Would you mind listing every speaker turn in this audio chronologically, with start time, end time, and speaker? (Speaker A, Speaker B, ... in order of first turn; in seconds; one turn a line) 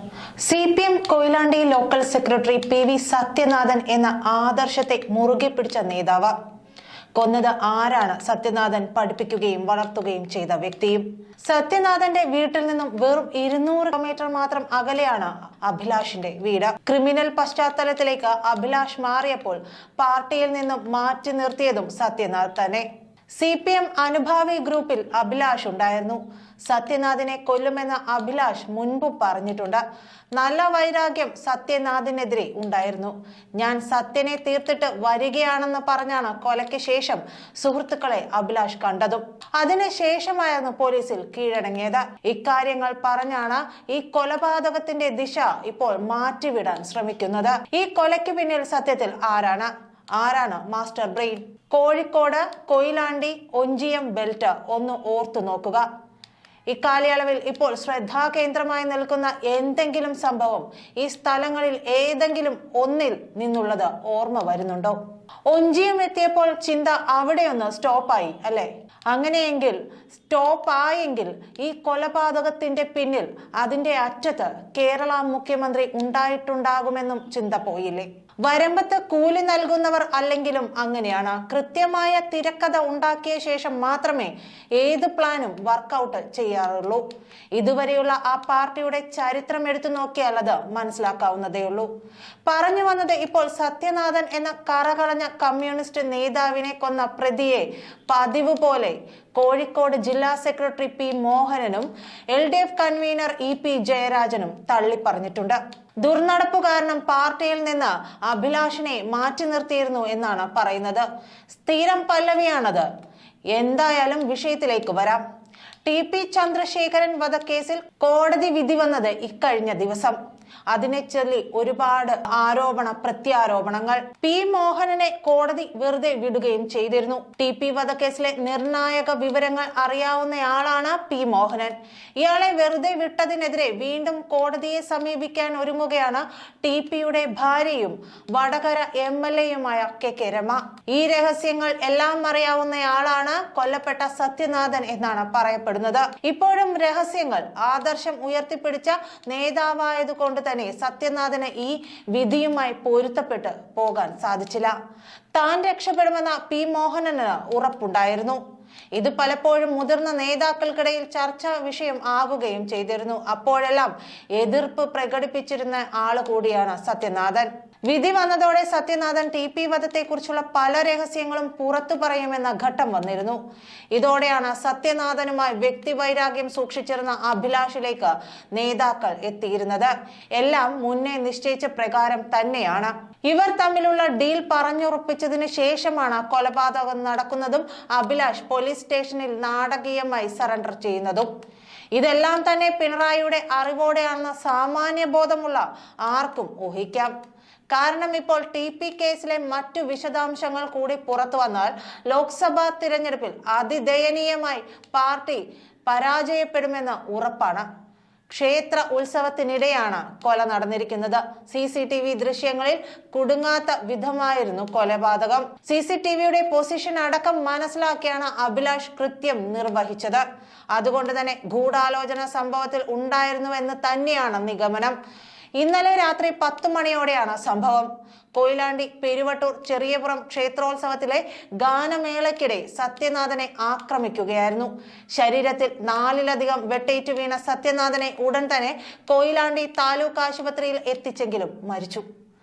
Speaker A: 0.4-6.3
Speaker A: 7.2-29.8
Speaker A: 30.4-55.9
Speaker A: 56.7-87.0
Speaker A: 87.5-91.9
Speaker A: 92.5-112.9
Speaker A: 113.5-115.2
Speaker A: 115.8-120.2
Speaker A: 120.7-154.8
Speaker A: 155.3-158.4
Speaker A: 158.9-173.4
Speaker A: 173.9-191.3
Speaker A: 191.9-197.1
Speaker A: 197.7-207.7
Speaker A: 208.3-225.0
Speaker A: 225.6-242.1